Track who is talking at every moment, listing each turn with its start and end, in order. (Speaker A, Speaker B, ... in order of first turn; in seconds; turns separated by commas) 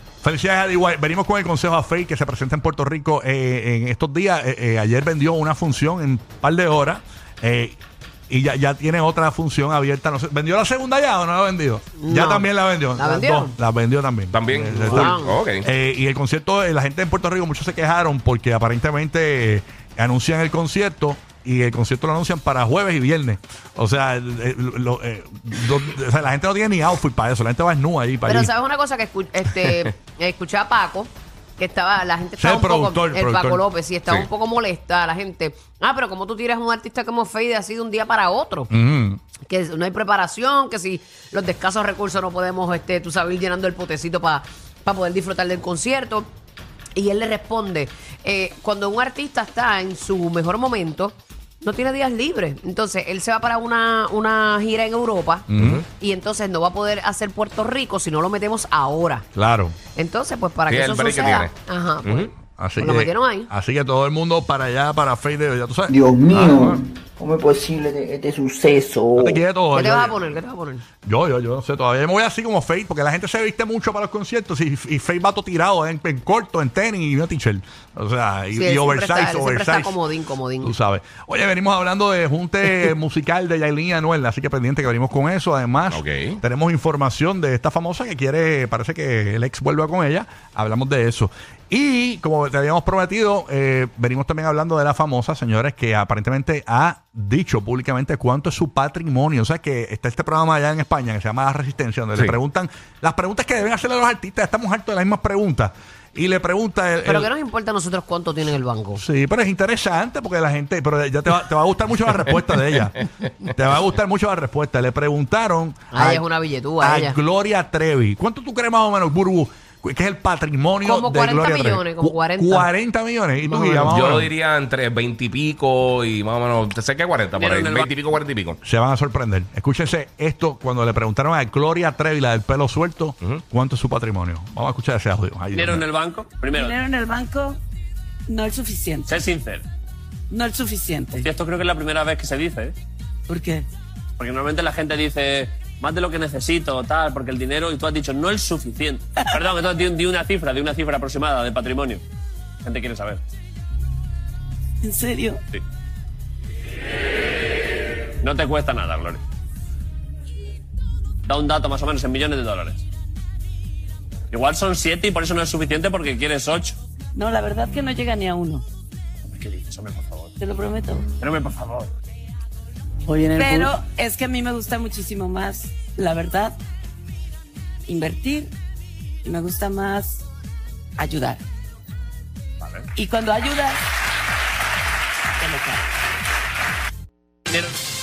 Speaker A: 0.2-28.5, Speaker B: 12.0-13.5, Speaker C: 14.3-15.7, Speaker B: 14.5-15.4, Speaker B: 28.3-38.7, Speaker A: 32.4-33.6, Speaker A: 38.7-39.2, Speaker B: 39.5-46.3, Speaker B: 47.0-59.2, Speaker A: 55.5-55.8, Speaker A: 59.3-59.8, Speaker B: 59.9-63.5, Speaker C: 60.7-61.5, Speaker C: 62.0-62.3, Speaker A: 62.5-66.8, Speaker D: 65.9-69.4, Speaker A: 69.2-70.3, Speaker B: 69.7-70.8, Speaker A: 71.0-80.0, Speaker B: 78.5-80.7, Speaker A: 80.6-107.3, Speaker C: 85.9-86.4, Speaker B: 107.0-109.0, Speaker A: 109.0-116.2, Speaker B: 115.9-117.2, Speaker A: 116.8-124.3, Speaker B: 120.8-122.7, Speaker B: 123.4-123.9, Speaker C: 123.9-128.6, Speaker E: 127.3-127.9, Speaker A: 128.6-135.8, Speaker E: 135.5-136.7, Speaker F: 136.5-137.6, Speaker F: 138.3-139.1, Speaker E: 139.1-139.6, Speaker F: 140.3-141.3, Speaker E: 141.1-142.7, Speaker F: 143.3-143.7, Speaker E: 144.2-152.0, Speaker E: 152.6-153.2, Speaker F: 154.8-155.4, Speaker E: 158.2-159.2, Speaker E: 161.3-162.8, Speaker E: 164.3-166.8, Speaker F: 167.1-168.7, Speaker E: 169.4-170.3, Speaker F: 170.4-171.1, Speaker E: 171.2-171.9, Speaker F: 173.1-176.6, Speaker F: 177.9-178.5, Speaker F: 179.2-180.2, Speaker F: 181.0-181.4, Speaker F: 182.9-183.8, Speaker F: 185.4-185.8